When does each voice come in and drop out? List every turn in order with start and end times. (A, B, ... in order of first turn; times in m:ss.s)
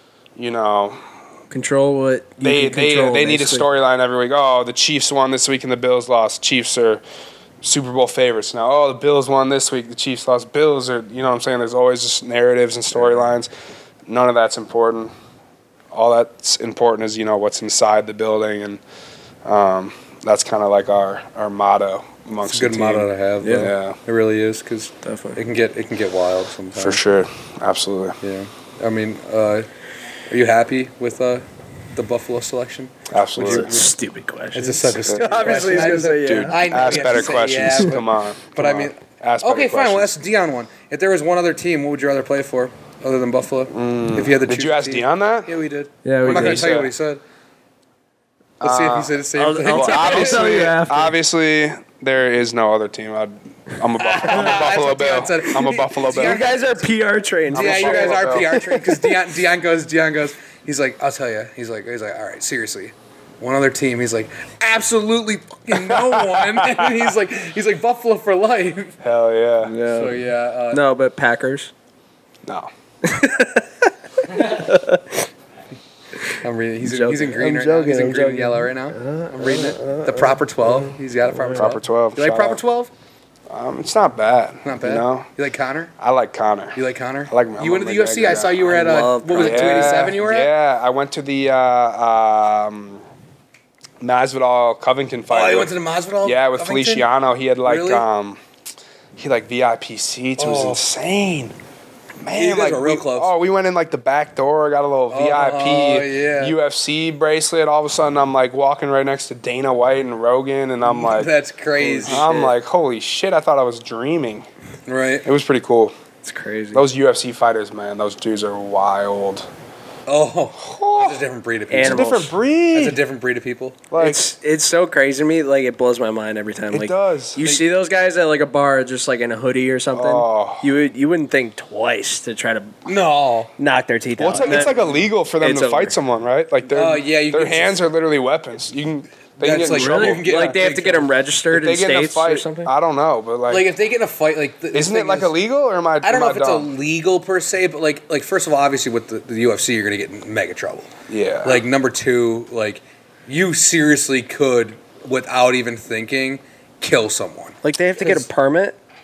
0:00.4-0:01.0 A
0:01.5-0:03.7 B
0:02.4-0:07.0 A
0:07.6-0:13.5 A
0:14.1-0:15.1 A
0:15.9-0:18.8 A
0:19.4-0:24.0 A
0:22.4-0:27.0 C
0:23.4-0:23.7 B
0:25.0-0:25.4 B
0:26.7-0:28.2 A
0:28.2-0:29.7 C
0:30.3-0:33.9 C
0:33.1-0:33.8 A
0:33.4-0:37.2 B
0:34.5-0:47.2 C
0:35.1-0:40.2 A
0:43.7-0:45.5 A
0:46.0-0:46.7 B
0:46.2-0:46.9 A
0:48.6-0:56.4 A
0:48.6-0:50.7 C
0:49.4-0:51.2 B
0:54.0-0:56.9 C
0:56.0-0:59.1 B
0:57.5-0:58.5 A
0:57.5-1:09.0 C
1:05.7-1:07.1 A
1:09.0-1:09.7 A
1:09.6-1:10.2 B
1:09.9-1:10.8 C
1:10.7-1:11.7 B
1:12.4-1:12.7 A
1:13.0-1:13.7 B
1:14.2-1:15.2 B
1:16.3-1:22.9 C
1:16.8-1:21.7 B
1:21.5-1:22.6 A
1:23.5-1:25.3 A
1:24.6-1:25.9 C
1:26.0-1:28.7 A
1:26.7-1:30.5 C
1:28.6-1:30.1 B
1:29.3-1:33.0 A
1:34.0-1:38.4 A
1:35.3-1:37.1 C
1:37.6-1:38.0 C
1:39.2-1:41.5 A
1:40.4-1:40.8 C
1:42.2-1:51.3 A
1:42.3-1:43.3 C
1:45.1-1:46.6 C
1:50.8-1:52.4 C
1:51.8-1:52.5 B
1:52.0-1:54.5 A
1:54.9-1:55.2 C
1:55.2-1:55.9 A
1:56.2-1:56.8 B
1:56.7-1:59.5 A
2:00.1-2:02.2 C
2:00.6-2:01.2 A
2:01.7-2:02.3 B
2:01.8-2:03.0 A
2:02.7-2:03.8 C
2:03.9-2:04.3 A
2:04.0-2:12.9 B
2:06.7-2:07.4 A
2:09.9-2:10.7 A
2:12.8-2:13.5 C
2:13.6-2:14.8 B
2:14.2-2:20.6 A
2:14.3-2:15.0 C
2:15.4-2:15.9 B
2:16.7-2:17.8 C
2:19.4-2:21.1 C
2:19.6-2:22.7 B
2:21.5-2:23.7 A
2:23.5-2:25.3 C
2:24.7-2:26.7 A
2:26.0-2:30.9 C
2:31.1-2:31.6 A
2:31.4-2:38.2 C
2:37.6-2:38.8 B